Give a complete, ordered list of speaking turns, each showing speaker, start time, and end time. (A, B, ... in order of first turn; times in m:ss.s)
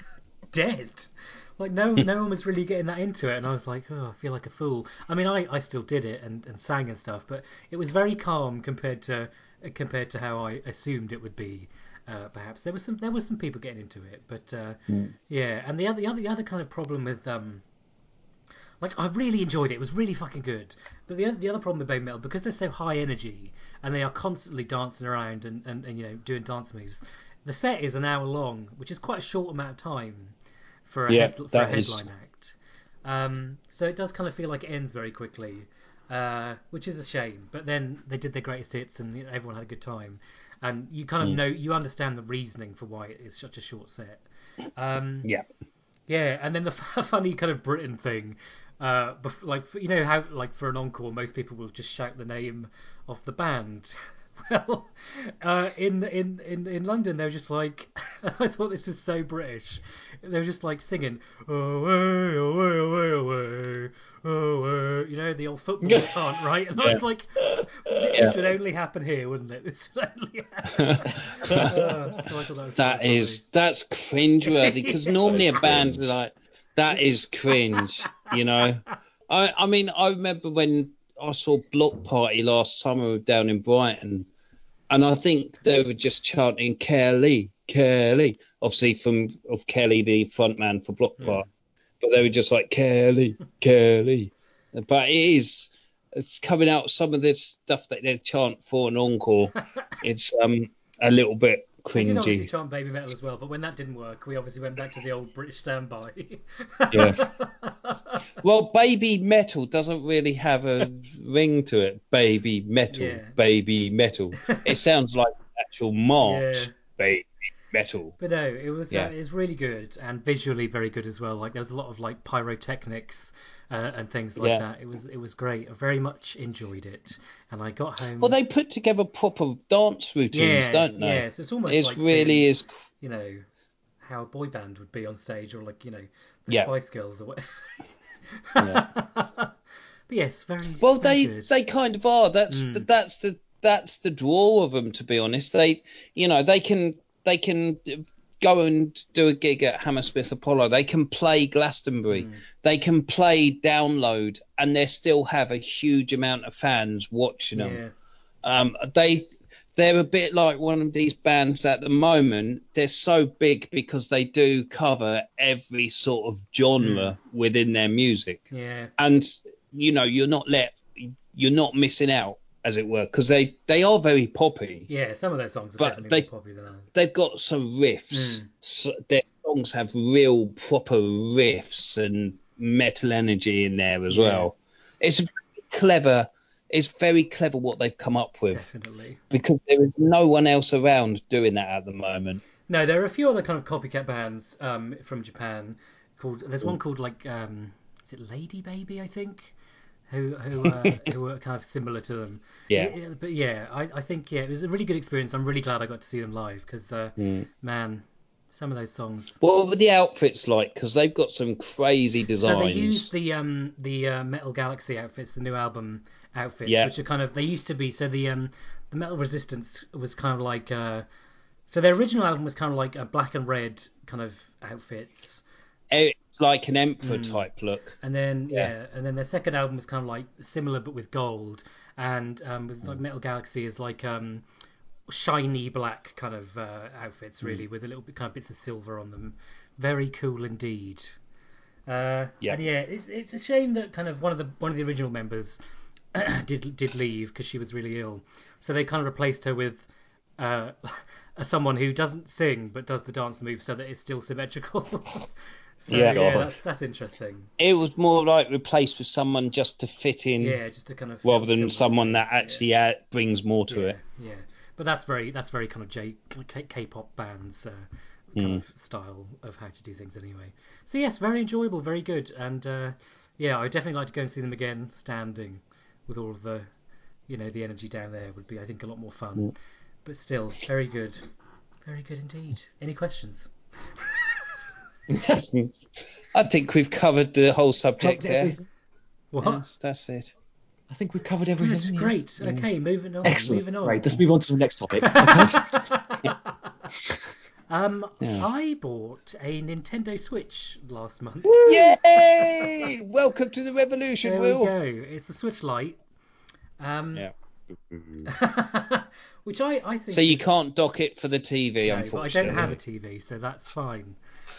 0:00.5-0:17.6 A
0:18.8-0:30.4 A
0:30.9-0:45.3 A
0:31.1-0:32.1 B
0:46.1-1:13.4 A
1:05.8-1:06.2 C
1:07.4-1:08.4 C
1:10.7-1:11.8 B
1:11.4-1:11.9 C
1:12.8-1:24.3 B
1:14.5-1:15.1 A
1:15.3-1:16.2 C
1:24.9-1:31.5 B
1:32.0-1:42.5 B
1:42.0-1:48.2 A
1:46.9-1:47.2 B
1:48.4-1:58.2 B
1:52.9-1:53.4 A
1:56.2-1:56.7 A
1:58.2-2:08.4 A
2:04.4-2:04.6 B
2:08.2-2:12.7 B
2:10.3-2:12.5 A
2:13.0-2:13.4 A
2:14.0-2:17.5 A
2:18.4-2:19.5 A
2:18.6-2:18.9 B
2:20.1-2:21.5 A
2:20.8-2:37.8 B
2:22.5-2:22.9 A
2:32.1-2:32.4 A
2:37.6-2:37.9 A
2:38.4-2:54.9 B
2:46.8-2:47.1 A
2:48.5-2:48.9 A
2:54.9-2:56.9 A
2:55.8-2:56.3 B
2:56.9-3:08.6 B
2:58.1-2:58.5 A
3:04.1-3:04.5 A
3:08.5-3:09.2 A
3:09.3-3:12.4 B
3:12.7-3:19.6 A
3:20.1-3:29.4 A
3:20.6-3:21.0 B
3:27.2-3:27.5 B
3:29.4-3:33.1 B
3:32.4-3:41.1 A
3:36.7-3:36.9 B
3:41.7-3:45.4 A
3:45.9-3:48.0 B
3:47.0-3:47.5 A
3:48.0-3:54.4 A
3:55.1-4:01.2 A
4:01.9-4:05.6 A
4:06.1-4:15.3 A
4:15.8-4:17.5 A
4:15.9-4:16.2 B
4:15.9-4:16.6 C
4:17.6-4:20.6 B
4:20.4-4:22.6 A
4:21.2-4:24.0 B
4:23.7-4:36.7 A
4:28.4-4:28.6 B
4:37.3-4:41.2 A
4:41.8-4:43.5 A
4:46.3-4:48.6 B
4:48.0-4:48.6 C
4:49.3-4:49.6 A
4:49.4-4:50.3 B
4:50.9-4:52.6 C
4:51.6-4:54.2 A
4:53.2-4:55.7 C
4:55.0-4:56.4 A
4:57.7-5:02.0 A
4:58.2-4:58.5 B
5:01.6-5:04.7 B
5:02.5-5:02.9 A
5:04.2-5:06.0 A
5:06.8-5:07.3 A
5:07.9-5:08.3 B
5:08.3-5:10.5 A
5:10.1-5:12.7 B
5:11.9-5:14.2 A